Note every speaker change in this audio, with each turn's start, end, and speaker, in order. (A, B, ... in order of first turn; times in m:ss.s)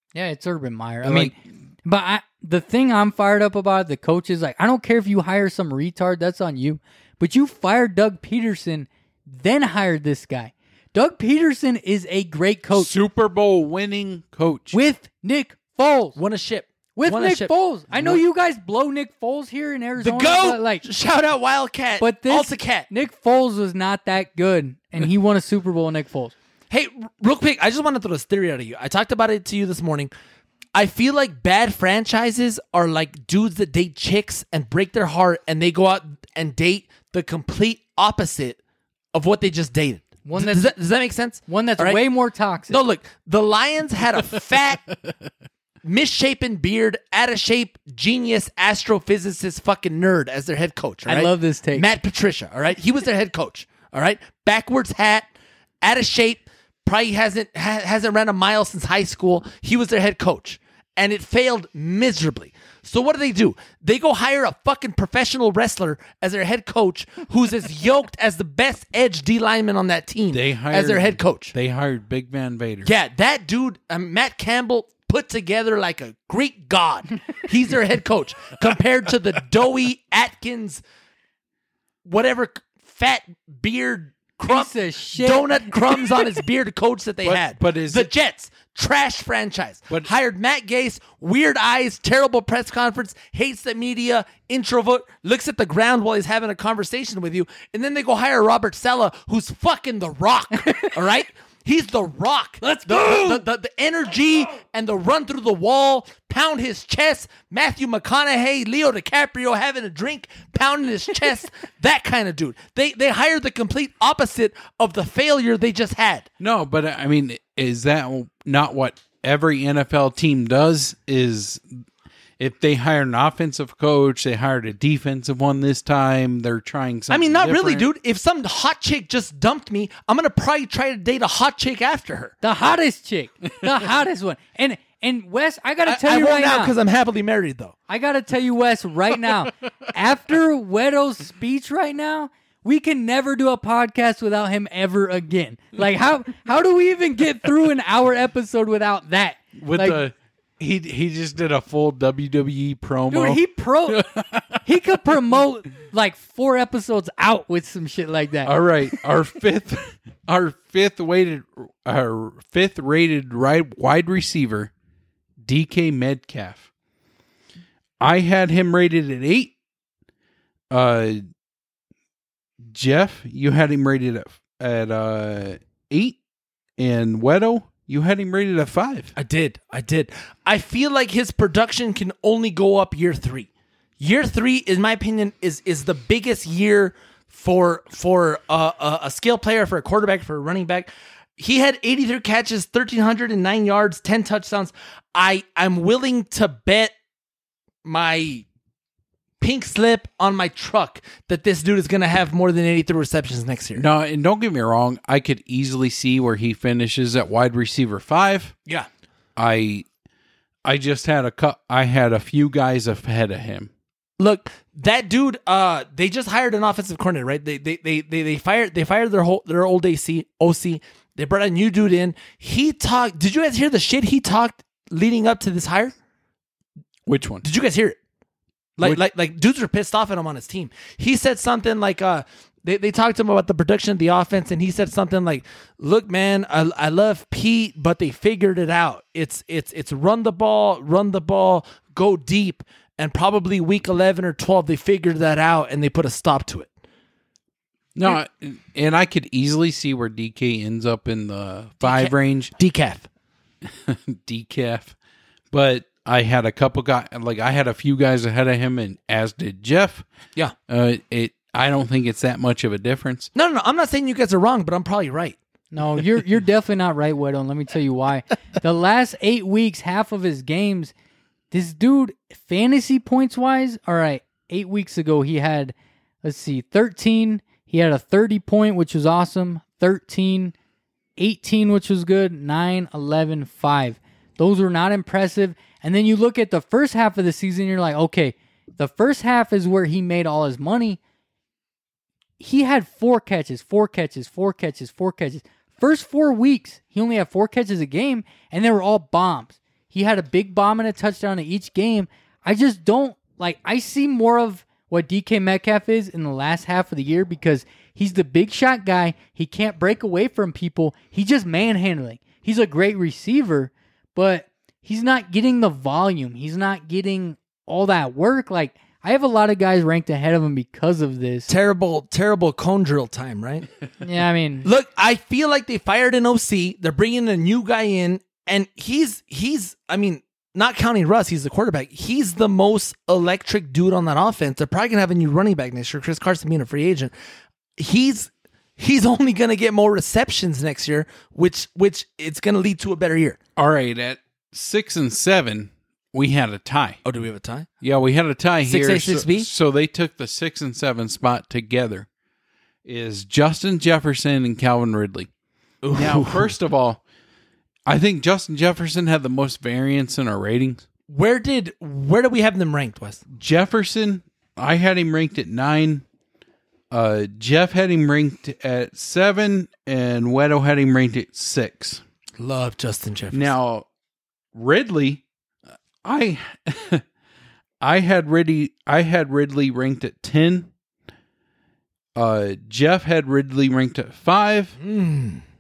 0:00.1-0:13.0 A
0:01.0-0:01.3 B
0:12.7-0:14.8 B
0:14.7-0:16.2 A
0:16.2-0:18.2 C
0:17.0-0:20.8 A
0:20.0-0:22.9 C
0:22.0-0:26.3 A
0:26.7-0:30.1 C
0:30.8-0:38.6 C
0:39.1-0:42.0 C
0:40.2-0:40.7 A
0:41.5-0:42.8 A
0:42.7-0:44.8 C
0:45.8-0:55.3 C
0:51.1-0:51.9 A
0:55.8-1:11.5 C
1:10.3-1:12.9 B
1:12.8-1:20.8 C
1:22.0-1:56.3 C
1:24.5-1:26.3 A
1:27.2-1:28.1 B
1:40.6-1:41.0 A
1:42.6-1:43.4 A
1:56.4-2:01.8 B
2:02.4-2:07.9 B
2:07.1-2:12.4 C
2:12.4-2:16.8 A
2:15.8-2:17.8 C
2:17.9-2:30.0 A
2:29.6-2:34.7 B
2:33.1-2:34.1 A
2:34.6-2:38.6 A
2:38.4-2:44.7 B
2:45.5-2:46.7 B
2:48.0-2:49.5 B
2:50.7-2:51.2 B
2:52.7-2:56.2 B
2:56.8-2:59.1 B
2:59.2-3:03.5 C
3:04.0-3:16.9 C
3:17.8-3:18.5 C
3:19.4-3:23.8 C
3:23.8-3:28.6 B
3:29.4-3:29.9 B
3:30.6-3:33.7 B
3:34.2-3:46.0 C
3:47.1-3:47.4 B
3:47.4-3:48.0 C
3:48.8-4:06.7 C
4:08.0-4:12.5 B
4:11.8-4:13.1 C
4:13.6-4:15.0 B
4:15.5-4:20.1 B
4:20.7-4:23.3 B
4:23.4-4:25.4 C
4:25.7-4:30.9 A
4:31.5-4:40.5 A
4:41.2-4:51.0 A
4:52.4-5:21.5 A
5:21.5-5:23.7 C
5:24.0-5:24.7 A
5:24.6-5:37.1 C
5:37.8-5:43.4 C
5:43.6-5:47.0 B
5:47.0-5:47.7 C
5:47.8-5:52.1 B
5:48.7-5:49.5 C
5:52.8-5:55.3 B
5:55.8-5:56.5 C
5:55.9-5:57.0 B
5:57.9-6:00.9 B
6:01.1-6:03.2 C
6:03.4-6:06.0 B
6:06.9-6:12.0 B
6:12.4-6:13.6 C
6:13.3-6:13.9 B
6:14.5-6:15.2 B
6:16.0-6:17.0 B
6:17.8-6:20.7 B
6:22.2-6:24.8 B
6:24.8-6:25.4 C